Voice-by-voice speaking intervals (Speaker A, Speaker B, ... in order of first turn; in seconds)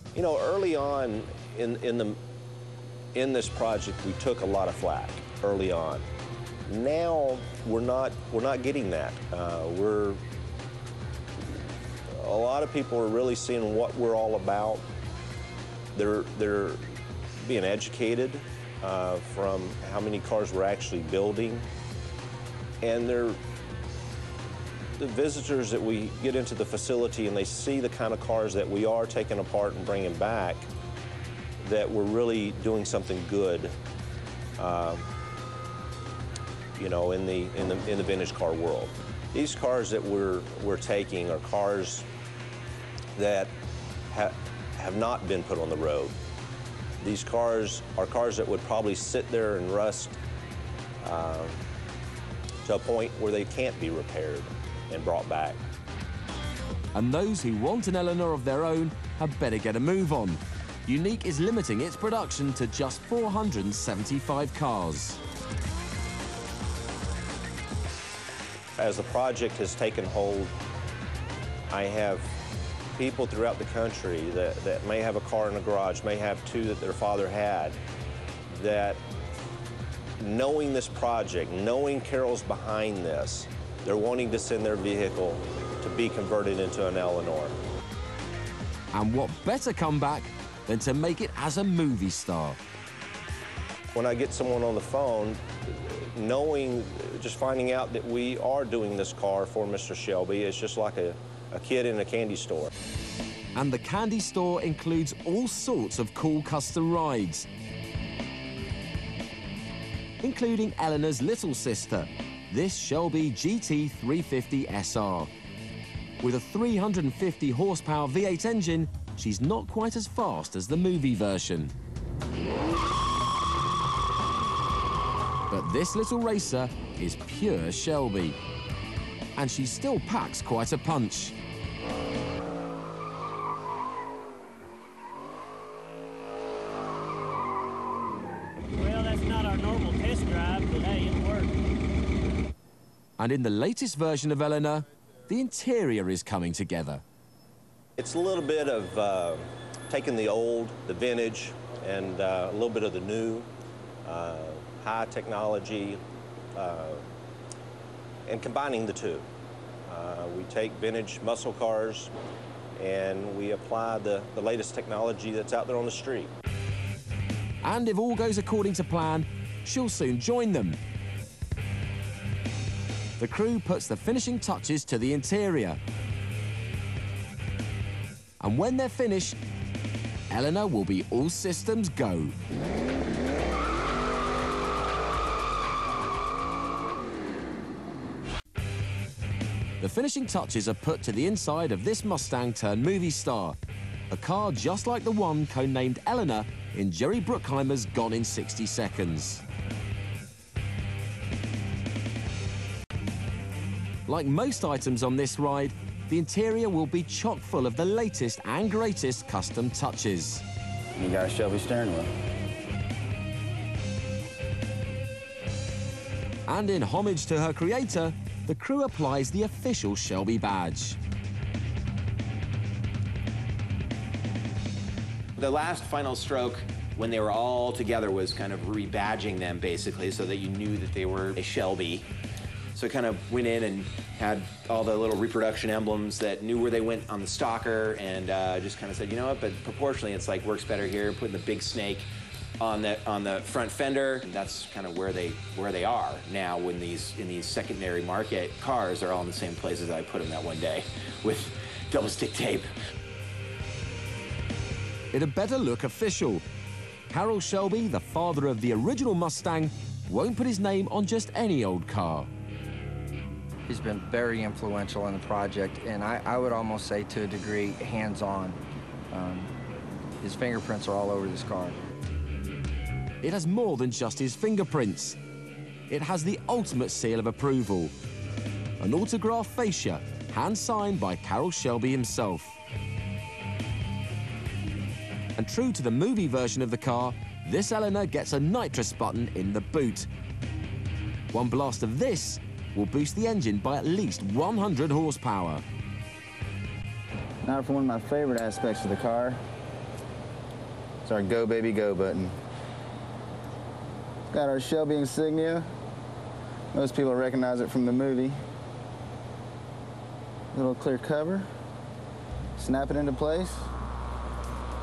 Speaker A: 0.1-2.2, 3.1-6.1, 6.7-10.2, 12.1-14.9, 15.9-16.8, 17.4-21.7, 22.8-23.4, 24.9-30.7, 31.6-33.7, 34.6-35.0, 36.8-42.1, 43.2-43.5, 44.1-46.2, 47.0-50.2, 51.0-51.6, 52.6-55.6, 68.8-70.5, 71.7-72.4, 73.0-77.8, 78.5-79.0, 80.2-87.6, 93.9-102.7, 148.0-153.5, 154.1-156.0, 156.6-157.0, 158.3-159.2, 159.9-162.1, 162.8-166.3
Speaker B: 57.0-65.2, 88.9-92.6, 103.5-107.5, 110.2-115.3, 116.2-121.7, 125.5-128.4, 129.4-131.3, 143.2-147.0, 167.6-170.8, 173.2-175.8, 178.4-179.4, 180.3-182.4, 189.8-193.6, 194.1-199.4, 204.1-210.4, 216.5-221.0, 255.1-256.4, 257.1-262.3, 273.2-275.2, 275.9-277.9, 278.8-282.6, 285.4-290.1, 291.3-295.6
Speaker C: 138.7-141.5
Speaker D: 211.0-212.1, 297.4-299.4, 301.1-302.3, 304.3-305.7, 306.7-308.4, 310.5-311.5, 312.6-313.7
Speaker E: 225.4-232.1, 232.7-252.7
Speaker F: 263.7-268.6, 269.1-269.5, 270.2-271.8